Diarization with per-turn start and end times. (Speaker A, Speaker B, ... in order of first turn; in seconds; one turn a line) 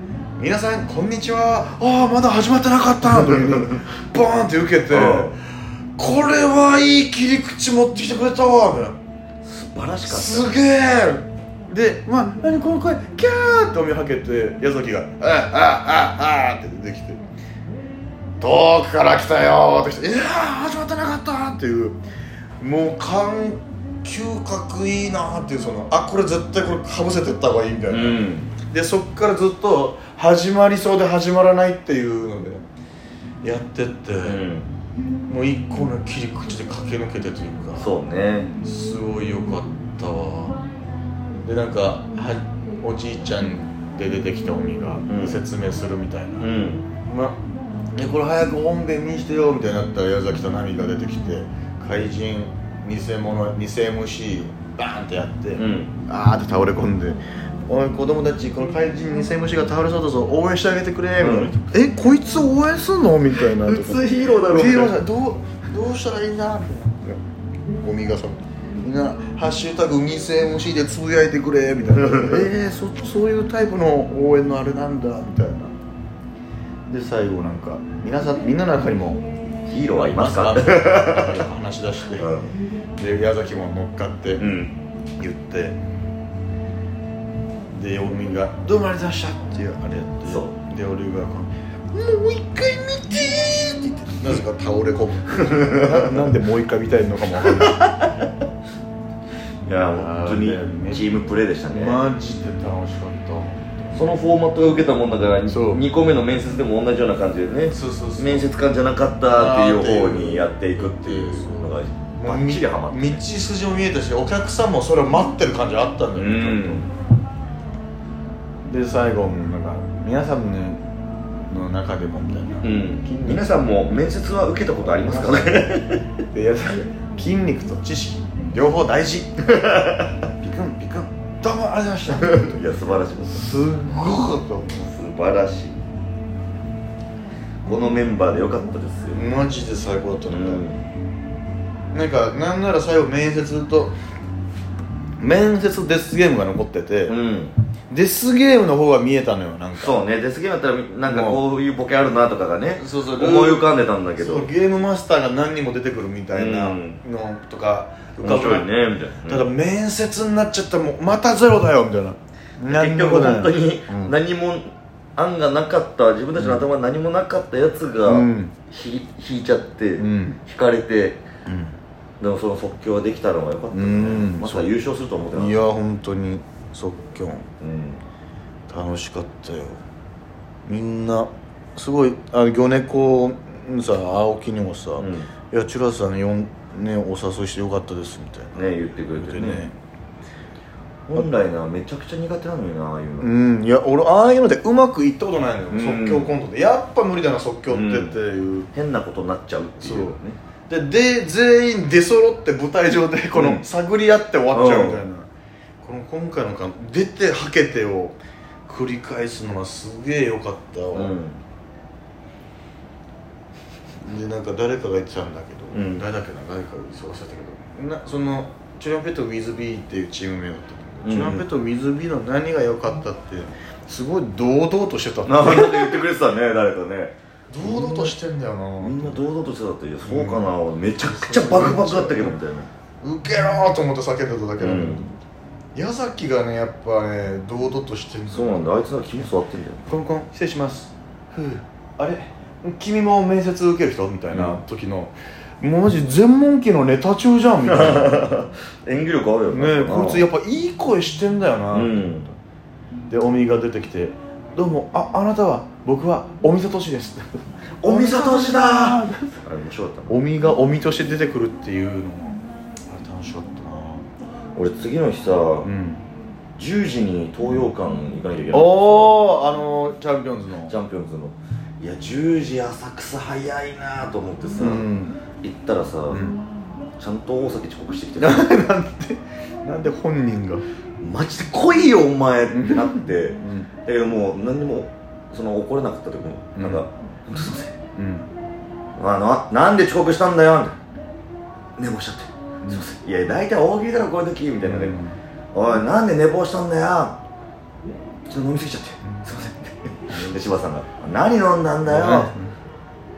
Speaker A: 0.4-9.0
Speaker B: 3.1-3.8
Speaker B: 4.9-5.4
Speaker B: 9.4-10.5
Speaker A: 10.1-17.2
Speaker A: 18.4-22.0
Speaker A: 22.6-32.6
Speaker B: 27.9-28.6
Speaker A: 33.4-34.4
Speaker B: 34.2-34.7
Speaker A: 35.3-37.9
Speaker B: 37.8-38.5
Speaker A: 38.6-40.6
Speaker A: 41.4-46.5
Speaker B: 45.1-45.4
Speaker B: 46.4-46.9
Speaker A: 47.1-47.4
Speaker A: 48.0-67.2
Speaker B: 55.6-55.9
Speaker B: 61.2-61.5
Speaker B: 63.3-65.0
Speaker A: 67.8-75.8
Speaker B: 72.0-72.5
Speaker A: 76.9-79.2
Speaker B: 79.7-81.5
Speaker A: 80.0-82.3
Speaker B: 82.2-82.5
Speaker A: 83.0-84.5
Speaker B: 84.4-84.7
Speaker A: 85.2-85.8
Speaker A: 87.7-97.8
Speaker B: 90.3-90.5
Speaker B: 95.5-96.3
Speaker B: 97.6-98.3
Speaker B: 99.7-102.0
Speaker A: 100.0-101.1
Speaker A: 101.7-104.1
Speaker B: 103.9-113.2
Speaker A: 105.5-105.8
Speaker A: 107.7-108.5
Speaker A: 109.3-116.8
Speaker B: 116.2-116.9
Speaker A: 118.7-120.9
Speaker A: 121.5-123.5
Speaker B: 122.6-126.0
Speaker A: 126.3-129.7
Speaker B: 129.5-130.1
Speaker A: 130.4-132.6
Speaker B: 132.1-133.5
Speaker A: 133.2-134.7
Speaker B: 134.7-135.8
Speaker B: 137.7-139.2
Speaker A: 139.1-140.6
Speaker B: 140.3-140.9
Speaker A: 141.9-144.0
Speaker A: 145.2-147.2
Speaker B: 147.1-147.6
Speaker A: 147.9-150.0
Speaker B: 149.8-154.5
Speaker A: 151.1-151.4
Speaker A: 152.8-153.7
Speaker A: 154.2-158.7
Speaker B: 156.3-157.0
Speaker B: 158.2-159.5
Speaker A: 159.3-164.2
Speaker B: 162.7-171.2
Speaker A: 166.4-166.7
Speaker A: 168.1-168.5
Speaker A: 170.0-170.4
Speaker A: 171.5-171.8
Speaker B: 172.2-175.6
Speaker A: 173.7-174.7
Speaker A: 175.3-177.5
Speaker B: 177.6-178.0
Speaker A: 178.7-179.8
Speaker A: 180.7-188.6
Speaker B: 185.0-185.3
Speaker B: 188.6-189.7
Speaker A: 189.1-189.7
Speaker B: 191.1-193.3
Speaker A: 193.2-198.7
Speaker B: 195.7-196.3
Speaker B: 197.7-198.1
Speaker B: 198.7-200.4
Speaker A: 199.8-205.3
Speaker B: 203.3-203.6
Speaker B: 204.5-205.0
Speaker A: 205.8-211.1
Speaker B: 210.9-211.4
Speaker A: 214.0-226.0
Speaker B: 215.7-216.1
Speaker B: 221.0-221.4
Speaker B: 225.2-228.1
Speaker A: 227.5-229.2
Speaker B: 228.8-232.7
Speaker A: 230.0-232.4
Speaker A: 233.0-235.1
Speaker B: 234.6-235.1
Speaker A: 235.8-238.8
Speaker B: 238.3-239.9
Speaker A: 239.9-248.2
Speaker B: 244.3-244.6
Speaker B: 247.7-250.3
Speaker A: 249.5-252.3
Speaker B: 251.7-252.3
Speaker A: 253.1-259.4
Speaker B: 257.8-260.1
Speaker A: 260.1-264.1
Speaker B: 264.6-265.7
Speaker A: 265.6-266.0
Speaker B: 266.6-269.2
Speaker A: 268.5-270.8
Speaker B: 270.7-274.9
Speaker A: 274.6-275.2
Speaker B: 275.4-276.2
Speaker A: 276.1-276.4
Speaker B: 277.0-278.4
Speaker A: 278.2-280.6
Speaker B: 281.0-287.7
Speaker A: 282.5-283.7
Speaker A: 286.6-286.9
Speaker A: 288.0-288.3
Speaker B: 289.0-290.8
Speaker B: 291.8-295.0
Speaker A: 294.6-295.2
Speaker B: 295.5-297.2
Speaker B: 298.3-302.3
Speaker A: 300.1-300.4
Speaker A: 301.9-302.5